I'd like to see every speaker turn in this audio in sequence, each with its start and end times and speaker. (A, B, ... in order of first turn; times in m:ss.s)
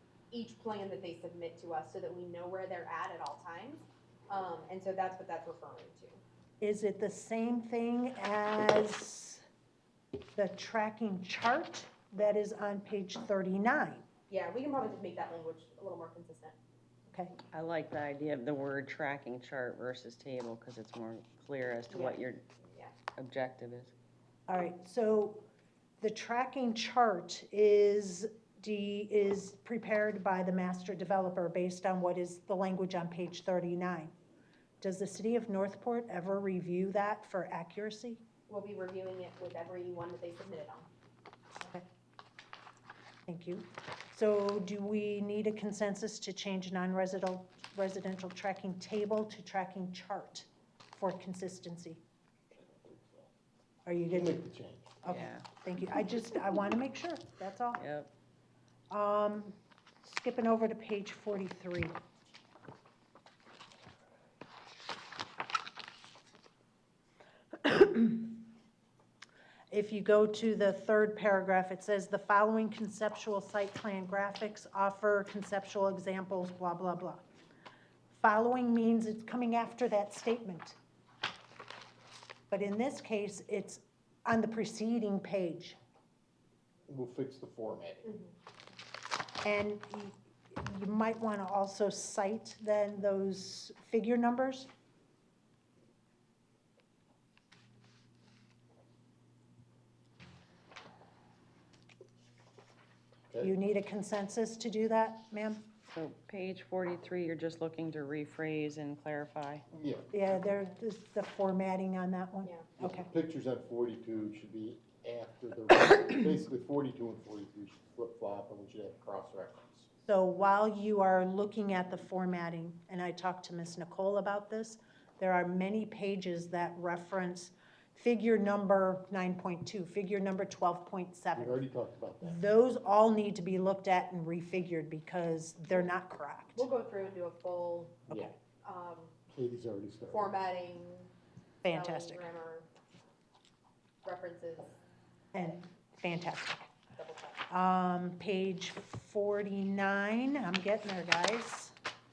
0:00.3-0:06.2 A
0:06.6-0:09.4 B
0:10.4-0:14.1 B
0:14.3-0:16.6 A
0:17.1-0:17.4 B
0:17.5-0:22.4 C
0:21.9-0:22.9 A
0:23.2-0:23.9 C
0:24.5-0:25.5 B
0:26.0-0:34.2 B
0:34.8-0:38.2 B
0:38.5-0:40.9 A
0:41.6-0:41.8 B
0:43.3-0:52.0 B
0:52.5-0:53.3 D
0:53.9-0:54.4 B
0:54.1-0:55.0 D
0:55.0-0:57.8 B
0:55.1-0:55.4 C
0:57.8-0:58.1 C
0:58.9-1:02.0 B
1:07.6-1:08.4 B
1:09.7-1:17.3 B
1:18.1-1:20.8 B
1:22.5-1:25.8 B
1:26.9-1:28.1 D
1:29.4-1:34.7 B
1:43.4-1:45.6 B
1:45.9-1:49.6 C
1:49.7-1:50.1 D
1:50.1-1:53.1 B
1:52.8-1:59.9 D
2:00.1-2:11.7 B
2:11.4-2:12.4 D
2:12.2-2:16.7 B
2:15.7-2:15.9 A
2:16.6-2:19.2 A
2:18.1-2:18.4 D
2:19.3-2:20.4 D
2:20.1-2:21.1 A
2:21.6-2:22.3 B
2:21.7-2:22.7 A
2:24.0-2:24.8 A
2:25.3-2:26.7 B
2:27.0-2:27.4 A
2:27.5-2:31.7 B